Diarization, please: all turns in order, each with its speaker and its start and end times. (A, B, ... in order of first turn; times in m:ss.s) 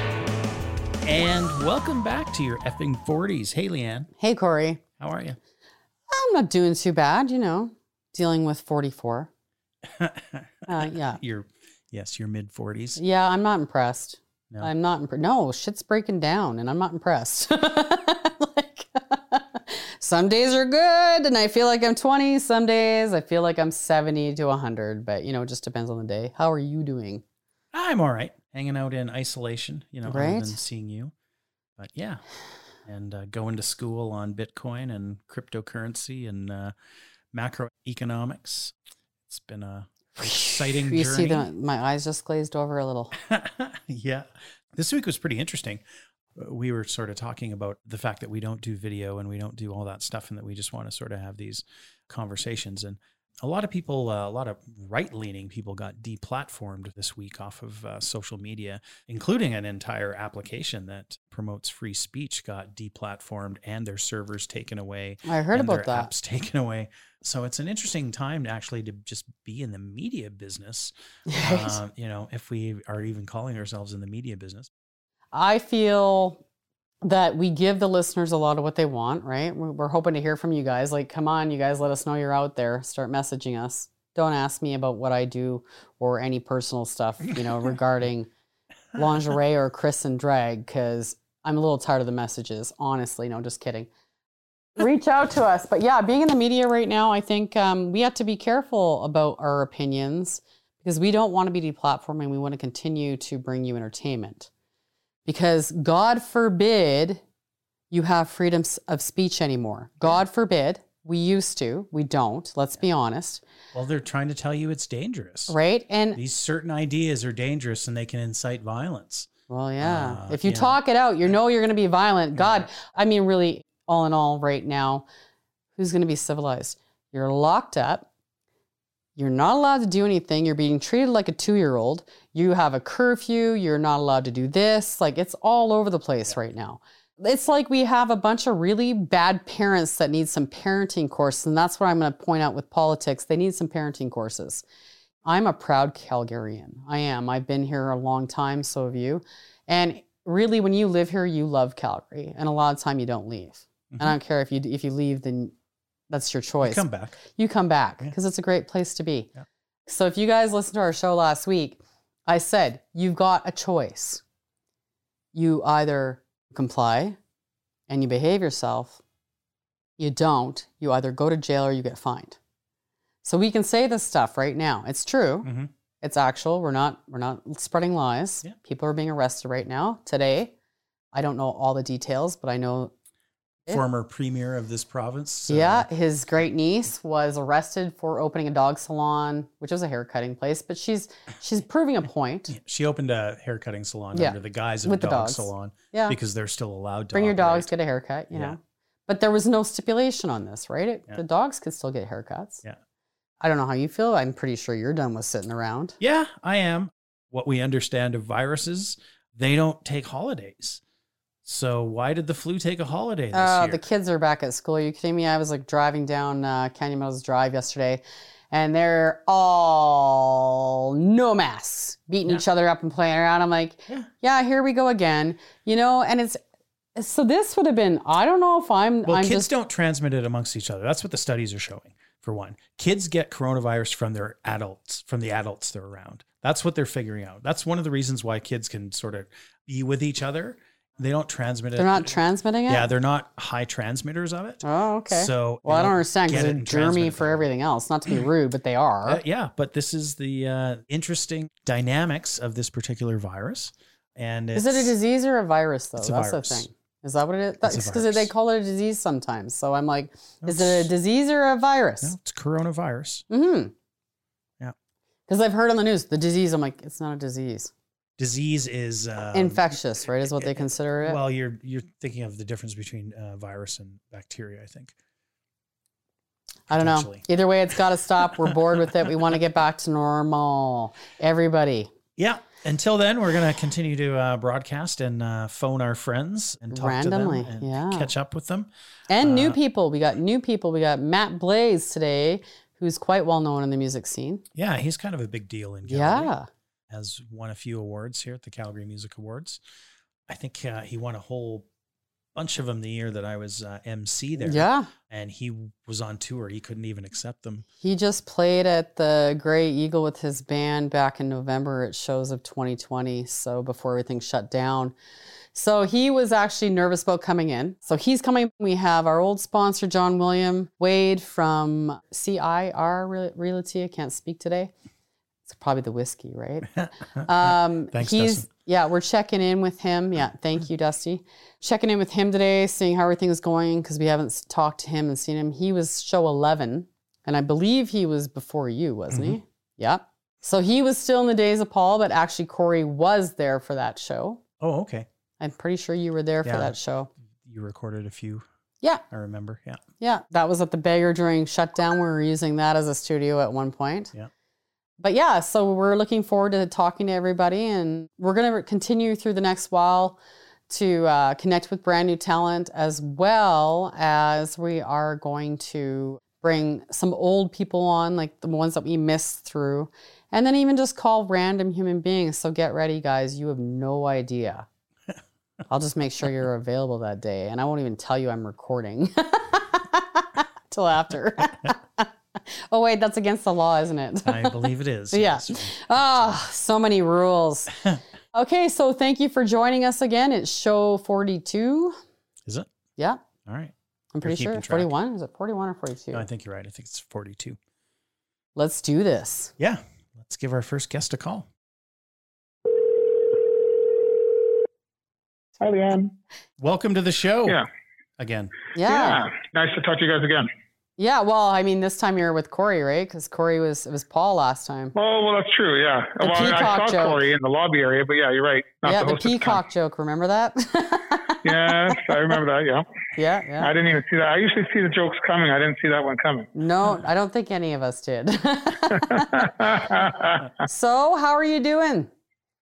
0:01.0-0:04.1 A
0:04.2-0:04.8 B
0:05.0-0:05.4 A
0:06.1-0:09.3 B
0:09.9-0:10.5 A
0:10.7-0:11.2 B
0:11.0-0:13.0 A
0:13.0-0:27.2 B
0:27.7-0:31.1 A
0:30.1-0:30.6 B
0:31.8-0:32.2 A
0:32.8-0:36.7 A
0:37.3-0:38.7 A
0:39.3-0:41.5 A
0:40.2-0:43.1 B
0:43.2-0:45.8 A
0:46.4-1:14.7 A
1:05.2-1:06.1 B
1:11.3-1:11.8 B
1:15.3-1:16.4 B
1:17.0-1:28.3 B
1:28.9-1:33.9 B
1:34.8-1:44.5 B
1:45.2-1:47.2 B
1:47.9-1:53.4 B
1:53.7-1:55.6 A
1:55.5-1:56.2 B
1:56.1-1:59.3 A
1:59.5-2:05.0 B
1:59.8-2:00.8 A
2:05.8-2:08.0 B
2:09.2-2:24.6 B
2:25.2-2:35.5 B
2:36.1-2:39.3 B
2:36.6-2:37.2 A
2:39.9-2:44.2 B
2:45.3-2:47.2 B
2:47.9-2:49.0 B
2:50.0-2:52.4 B
2:53.2-2:55.5 B
2:55.4-2:55.7 A
2:56.0-3:00.5 B
3:01.1-3:02.9 B
3:03.7-3:05.9 A
3:05.5-3:12.5 B
3:12.5-3:17.7 A
3:14.1-3:16.2 B
3:17.1-3:22.6 B
3:23.4-3:26.0 B
3:26.0-3:30.8 A
3:31.4-3:33.8 A
3:33.3-3:46.4 B
3:47.0-3:49.5 B
3:49.0-4:02.1 A
4:01.8-4:02.9 B
4:02.7-4:07.5 A
4:04.6-4:09.2 B
4:09.0-4:14.9 A
4:14.5-4:22.1 B
4:16.0-4:16.6 A
4:17.6-4:18.3 A
4:20.4-4:20.9 A
4:22.0-4:23.2 A
4:23.3-4:23.7 B
4:25.3-4:27.7 B
4:28.2-4:29.6 A
4:29.3-4:31.2 B
4:30.4-4:34.9 A
4:36.7-4:41.9 B
4:36.7-4:37.2 A
4:42.2-4:48.7 A
4:46.7-4:48.1 B
4:49.1-4:54.4 B
4:49.2-4:49.6 A
4:54.5-4:56.3 A
4:55.9-4:56.5 B
4:56.9-4:59.6 A
5:00.3-5:01.6 A
5:02.3-5:07.6 A
5:04.4-5:04.9 B
5:07.8-5:14.9 B
5:15.5-5:24.7 B
5:25.5-5:44.4 B
5:27.9-5:28.4 A
5:39.1-5:39.4 A
5:44.6-5:45.1 A
5:45.4-5:47.1 B
5:46.4-5:46.7 A
5:47.4-5:48.4 A
5:49.1-5:49.8 A
5:50.0-5:54.1 B
5:55.0-6:00.2 B
6:00.7-6:14.6 B
6:15.7-6:27.8 B
6:24.2-6:26.4 A
6:28.3-6:32.0 B
6:33.0-6:33.2 B
6:33.4-6:34.9 A
6:34.1-6:36.2 B
6:36.1-6:37.6 A
6:38.6-6:39.5 B
6:39.6-6:41.5 A
6:45.6-6:46.1 C
6:46.6-6:47.6 A
6:48.2-6:48.5 A
6:48.7-6:49.2 B
6:48.8-6:50.5 C
6:51.0-6:54.9 B
6:54.9-6:59.6 C
6:56.2-6:57.2 B
6:58.8-7:02.0 B
7:01.4-7:02.8 C
7:03.2-7:03.7 B
7:03.6-7:06.5 C
7:06.5-7:09.5 B
7:09.3-7:10.5 C
7:10.6-7:12.1 B